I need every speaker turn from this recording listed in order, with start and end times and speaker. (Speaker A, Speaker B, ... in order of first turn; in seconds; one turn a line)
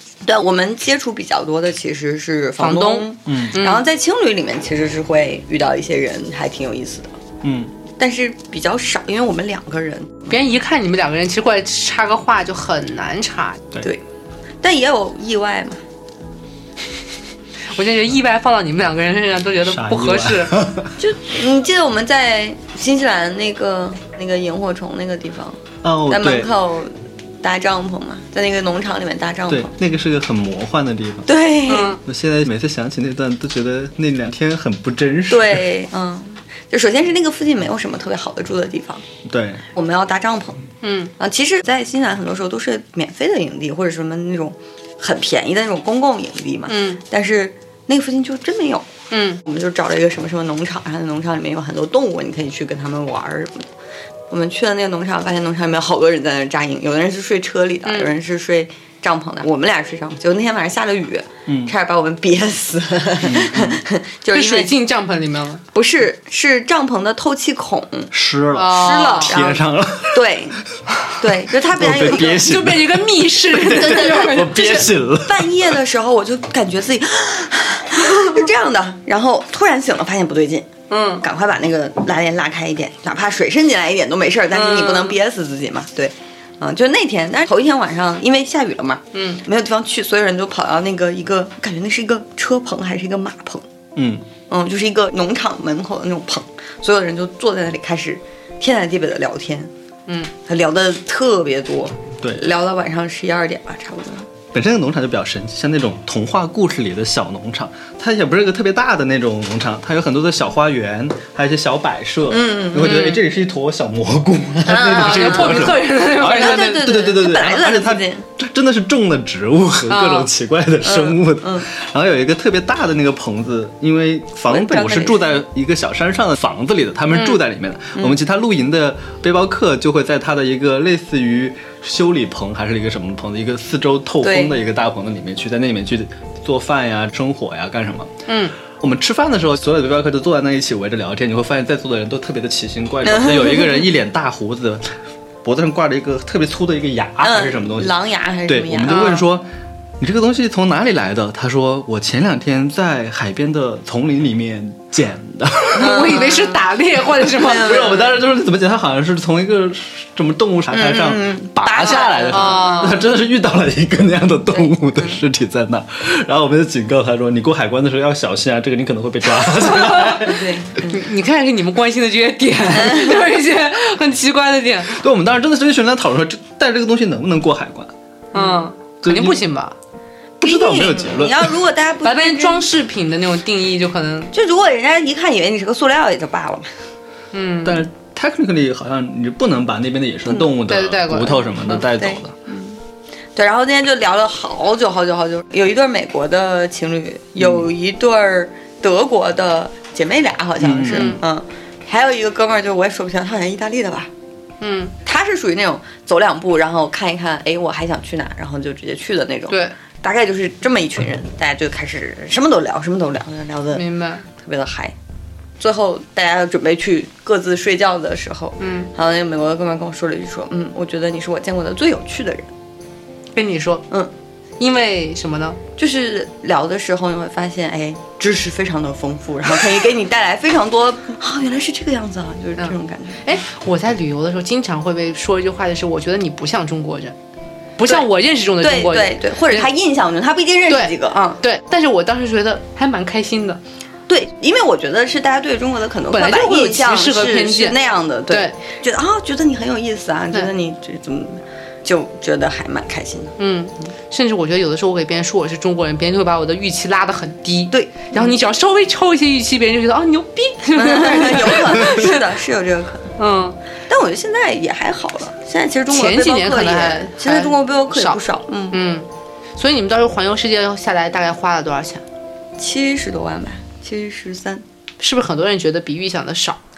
Speaker A: 0.2-7.2
Speaker B: 2.6-3.9
Speaker C: 3.3-3.6
Speaker C: 7.4-7.7
Speaker A: 8.0-10.4
Speaker B: 10.3-13.6
Speaker A: 14.6-15.8
Speaker B: 17.7-20.6
Speaker C: 19.6-20.9
Speaker A: 21.0-29.7
Speaker C: 25.8-26.5
Speaker C: 29.5-31.3
Speaker A: 31.3-32.0
Speaker B: 31.7-32.0
Speaker C: 32.0-35.7
Speaker A: 35.3-39.0
Speaker C: 39.3-39.6
Speaker A: 39.7-40.6
Speaker B: 40.8-41.1
Speaker A: 41.2-48.9
Speaker B: 46.7-47.0
Speaker B: 49.1-49.4
Speaker A: 49.4-53.7
Speaker A: 54.3-64.7
Speaker B: 57.9-58.1
Speaker C: 61.5-61.7
Speaker C: 63.2-63.8
Speaker B: 64.3-65.6
Speaker A: 65.7-70.6
Speaker C: 68.1-70.3
Speaker B: 68.5-69.4
Speaker C: 70.9-75.7
Speaker A: 71.2-72.5
Speaker B: 72.3-74.9
Speaker A: 73.6-80.7
Speaker B: 80.9-81.2
Speaker A: 81.2-93.7
Speaker B: 84.5-85.2
Speaker B: 89.1-89.4
Speaker C: 94.0-94.2
Speaker A: 94.5-99.7
Speaker A: 100.5-104.3
Speaker C: 104.5-138.1
Speaker A: 112.3-113.2
Speaker B: 112.8-113.2
Speaker A: 114.7-118.3
Speaker B: 114.9-116.9
Speaker B: 119.9-120.3
Speaker A: 120.8-121.7
Speaker A: 124.5-125.4
Speaker A: 134.2-134.6
Speaker B: 138.3-138.5
Speaker C: 138.7-144.9
Speaker A: 143.0-143.9
Speaker C: 145.4-149.5
Speaker A: 147.2-149.2
Speaker B: 148.9-149.2
Speaker C: 150.0-156.2
Speaker B: 155.8-158.0
Speaker A: 155.8-156.5
Speaker C: 157.3-170.7
Speaker A: 157.4-158.1
Speaker A: 160.7-163.1
Speaker B: 161.8-163.0
Speaker A: 164.5-165.2
Speaker B: 169.8-170.2
Speaker A: 170.2-171.0
Speaker B: 170.8-175.0
Speaker A: 172.8-173.2
Speaker C: 174.9-177.9
Speaker B: 178.3-179.8
Speaker A: 178.3-178.7
Speaker C: 179.0-179.4
Speaker C: 180.4-181.6
Speaker A: 180.4-182.7
Speaker B: 182.0-184.3
Speaker A: 184.3-186.7
Speaker B: 187.3-187.8
Speaker C: 187.6-192.4
Speaker B: 190.6-191.8
Speaker A: 191.9-192.8
Speaker A: 193.3-204.1
Speaker C: 200.6-201.1
Speaker B: 200.9-201.2
Speaker B: 204.6-204.9
Speaker A: 205.0-214.9
Speaker B: 209.5-209.8
Speaker B: 213.7-214.3
Speaker A: 215.6-222.5
Speaker B: 218.6-218.9
Speaker B: 223.3-223.9
Speaker B: 224.6-225.6
Speaker A: 225.8-233.2
Speaker B: 232.6-237.2
Speaker B: 237.8-239.7
Speaker A: 238.6-241.4
Speaker B: 240.7-243.6
Speaker A: 244.1-253.3
Speaker B: 246.1-247.8
Speaker B: 248.3-248.6
Speaker B: 253.4-262.2
Speaker A: 257.7-258.4
Speaker A: 260.7-263.1
Speaker B: 263.2-263.6
Speaker A: 263.9-268.8
Speaker B: 265.9-268.2
Speaker B: 268.7-272.0
Speaker A: 272.6-274.6
Speaker B: 275.0-276.6